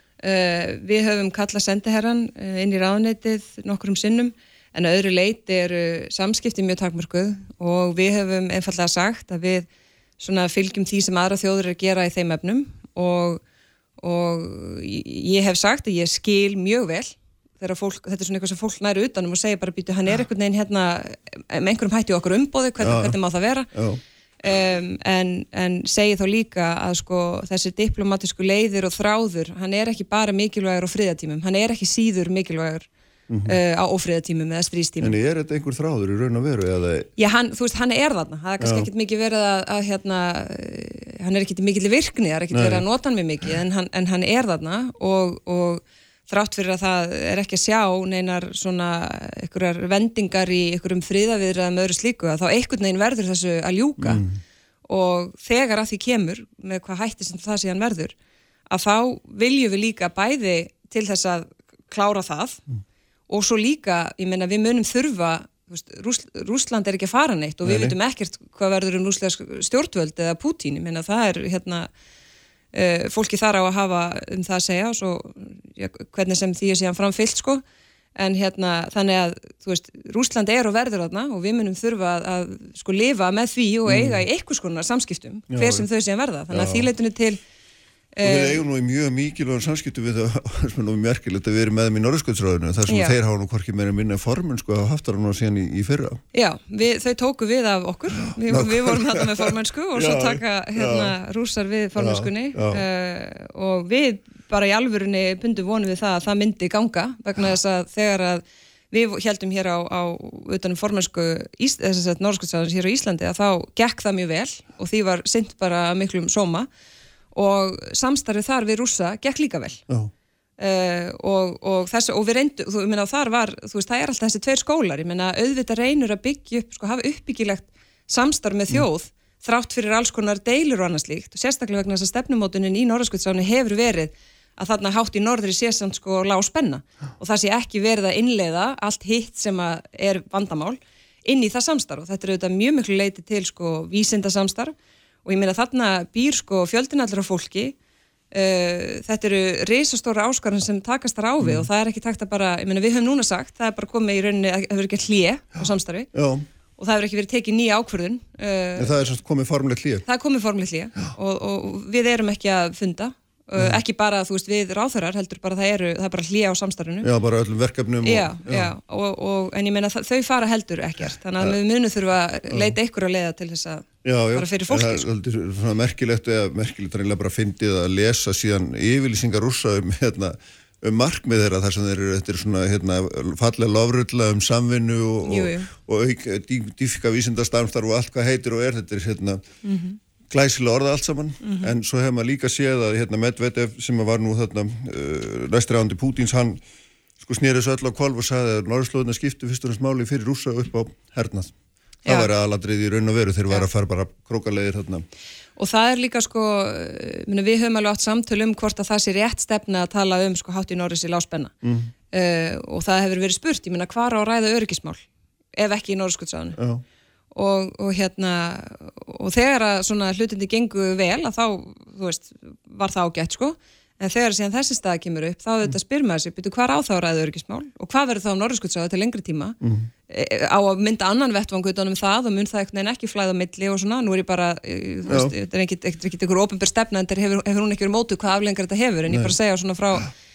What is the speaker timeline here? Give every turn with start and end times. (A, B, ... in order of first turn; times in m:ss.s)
0:00.2-0:09.7 A
0:10.2-0:13.4 A
0:14.0-0:23.7 A
0:22.8-0:23.2 B
0:23.7-0:24.0 B
0:24.4-0:32.9 A
0:33.3-0:33.6 B
0:33.4-0:35.2 A
0:35.0-0:37.1 B
0:37.2-0:54.2 A
0:38.6-0:38.9 B
0:42.5-0:42.8 B
0:54.0-0:54.4 B
0:54.9-0:58.2 A
0:58.7-1:02.6 A
1:03.3-1:11.9 A
1:07.6-1:08.0 B
1:12.7-1:17.6 A
1:18.2-1:27.4 A
1:23.9-1:24.2 B
1:25.5-1:25.9 B
1:26.5-1:26.9 B
1:28.1-1:28.6 A
1:28.2-1:36.2 B
1:32.9-1:33.2 A
1:36.3-1:56.7 A
1:38.3-1:41.1 B
1:42.0-1:42.8 B
1:57.3-1:59.8 A
2:00.6-2:27.8 A
2:28.3-2:36.1 A
2:31.4-2:31.7 B
2:36.1-2:36.5 B
2:36.8-2:38.9 A
2:38.8-2:40.0 B
2:40.1-2:47.1 A
2:47.0-2:48.7 B
2:48.0-2:55.0 A
2:52.5-2:52.8 B
2:54.0-3:09.4 B
3:05.2-3:05.7 A
3:09.6-3:10.0 A
3:10.3-3:16.6 B
3:11.4-3:11.7 A
3:17.2-3:21.5 B
3:22.0-3:22.3 A
3:22.1-3:25.0 B
3:25.6-3:31.5 A
3:31.6-3:31.9 B
3:32.1-3:35.0 A
3:35.6-3:36.6 A
3:36.6-3:36.8 B
3:37.3-3:49.6 A
3:49.6-3:49.9 B
3:50.1-4:00.1 A
3:55.1-3:55.4 B
3:59.1-3:59.4 B